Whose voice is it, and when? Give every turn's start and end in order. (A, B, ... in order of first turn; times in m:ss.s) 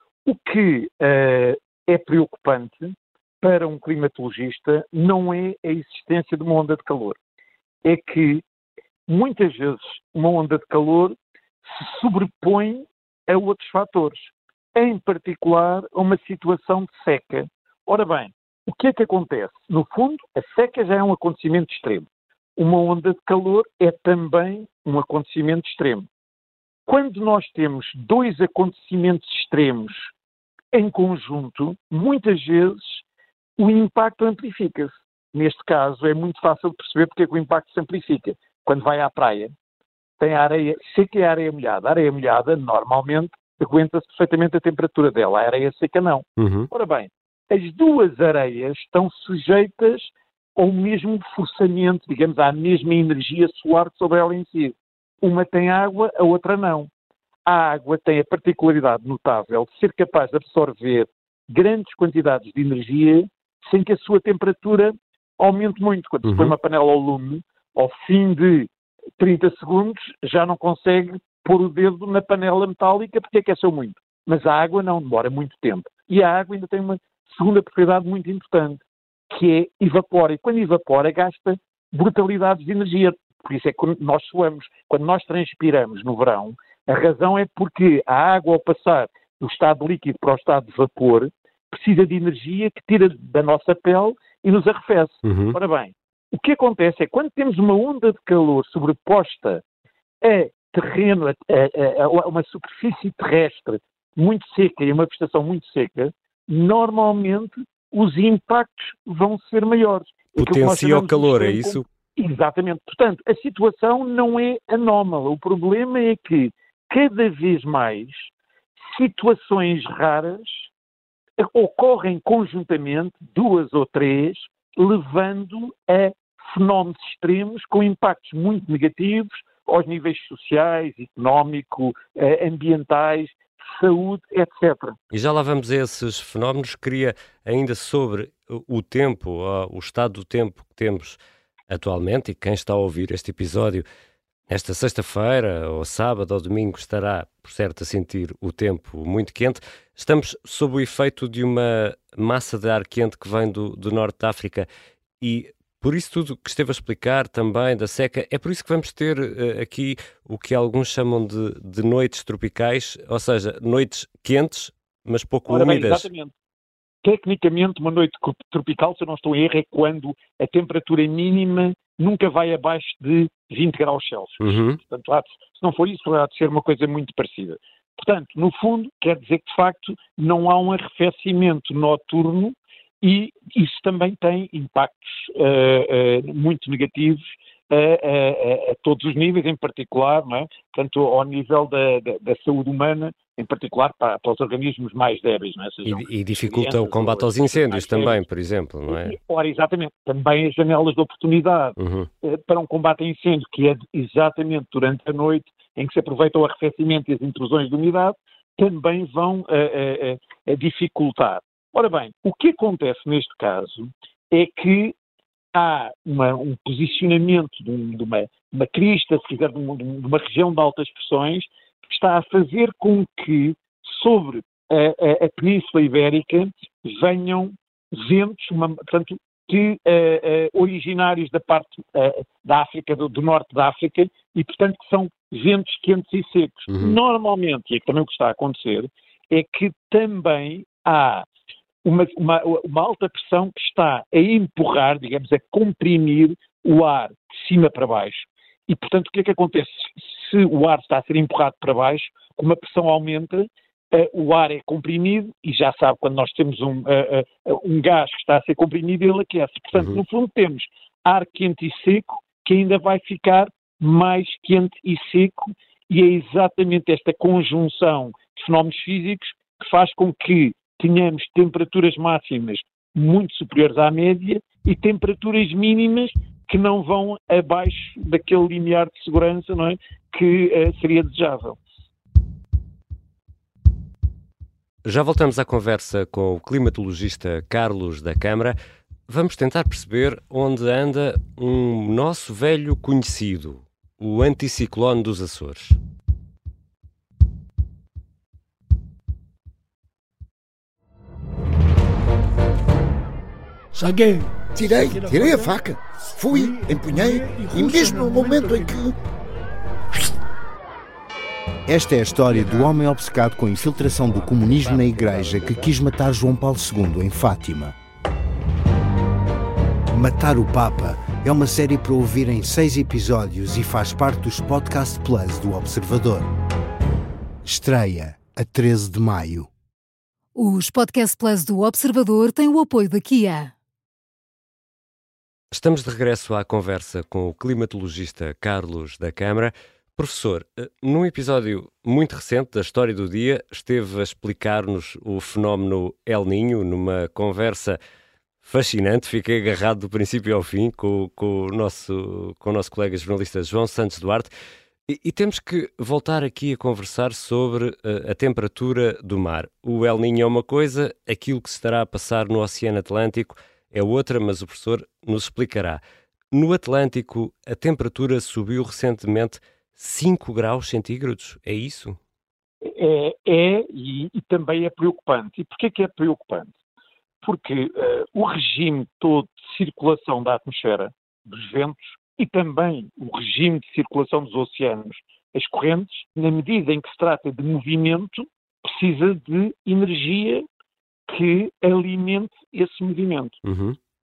0:00.2-0:07.2 A
0:07.8-0:08.4 A
0:09.1-0:26.1 A
0:26.9-0:30.1 A
0:30.7-0:33.0 A
0:33.6-0:39.5 A
0:40.2-0:56.9 A
0:46.4-0:46.7 B
0:57.4-1:39.6 A
1:06.2-1:06.5 B
1:35.2-1:35.6 B
1:40.2-1:58.3 A
1:50.4-1:51.8 B
1:58.9-2:00.7 A
2:01.4-2:15.0 A
2:15.1-2:21.2 B
2:21.7-2:23.8 B
2:24.5-2:34.7 B
2:35.2-2:46.1 B
2:45.5-2:46.3 A
2:47.0-3:18.2 A
2:54.4-2:54.8 B
3:15.9-3:19.1 B
3:18.9-3:34.9 A
3:21.8-3:22.1 B
3:35.5-4:01.3 A
3:56.7-3:57.0 B
4:01.8-4:41.6 A
4:44.8-4:48.6 B
4:49.1-4:55.8 B
5:03.7-5:05.6 C
5:04.6-5:08.9 D
5:06.3-5:08.9 C
5:11.7-5:17.7 D
5:19.9-5:26.3 D
5:27.4-5:29.5 D
5:30.4-5:33.5 E
5:35.5-5:47.8 B
5:48.4-5:54.3 B
5:54.9-6:12.0 B
6:12.6-6:16.5 A
6:17.2-6:30.4 A
6:31.1-6:33.4 A
6:33.4-6:33.8 B